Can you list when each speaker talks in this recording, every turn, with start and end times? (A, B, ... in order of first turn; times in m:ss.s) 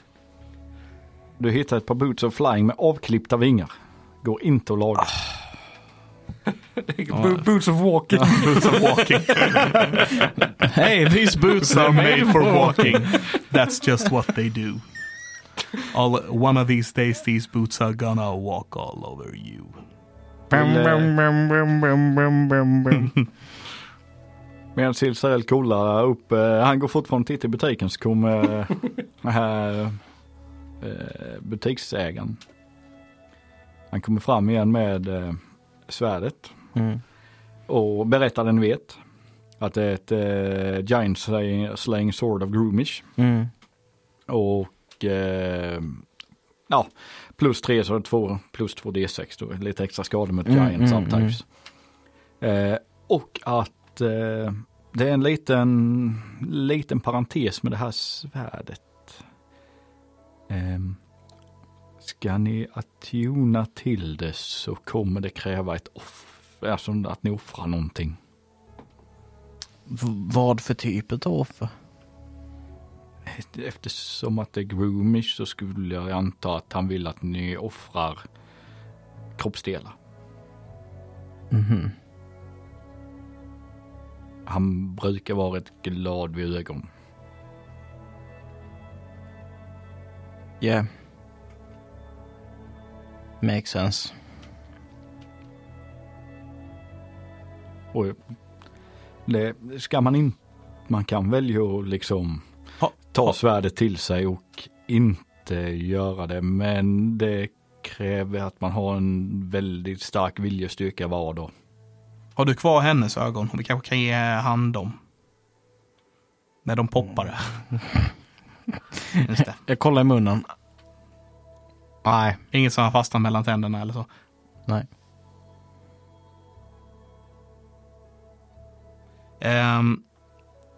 0:01.4-0:03.7 A
0:04.2-0:05.1 A
0:06.9-0:10.2 B
0:07.1-0:07.4 C
0:08.2-0:10.1 C
0:10.6-0:13.0 D
0:11.6-0:14.8 C
0:12.6-0:13.2 B
0:15.9-0:19.8 C
0:20.5-0:21.1 A
0:20.5-0:23.1 D
0:24.8-0:30.0 A
0:30.8-0:32.4 A
0:33.9-0:36.5 A
0:36.8-0:37.0 D
0:37.7-0:39.0 A
0:39.6-0:43.1 A
0:43.2-0:43.5 D
0:44.3-0:46.0 A
0:46.7-0:51.4 A
0:50.5-0:51.4 D
0:52.4-0:59.2 A
1:00.5-1:01.0 A
1:02.0-1:08.2 A
1:09.9-1:11.7 D
1:13.3-1:18.2 A
1:19.4-1:20.0 A
1:21.5-1:21.9 D
1:24.5-1:26.9 A
1:30.6-1:30.9 D
1:33.4-1:34.1 D
1:37.9-1:38.2 A
1:39.3-1:40.4 A
1:40.9-1:42.4 A
1:43.1-1:51.5 A
1:52.4-1:55.0 C
1:56.6-1:57.9 C
1:59.2-1:59.6 C
1:59.5-2:00.5 D
2:02.0-2:02.4 D
2:02.5-2:04.1 C
2:09.4-2:10.0 C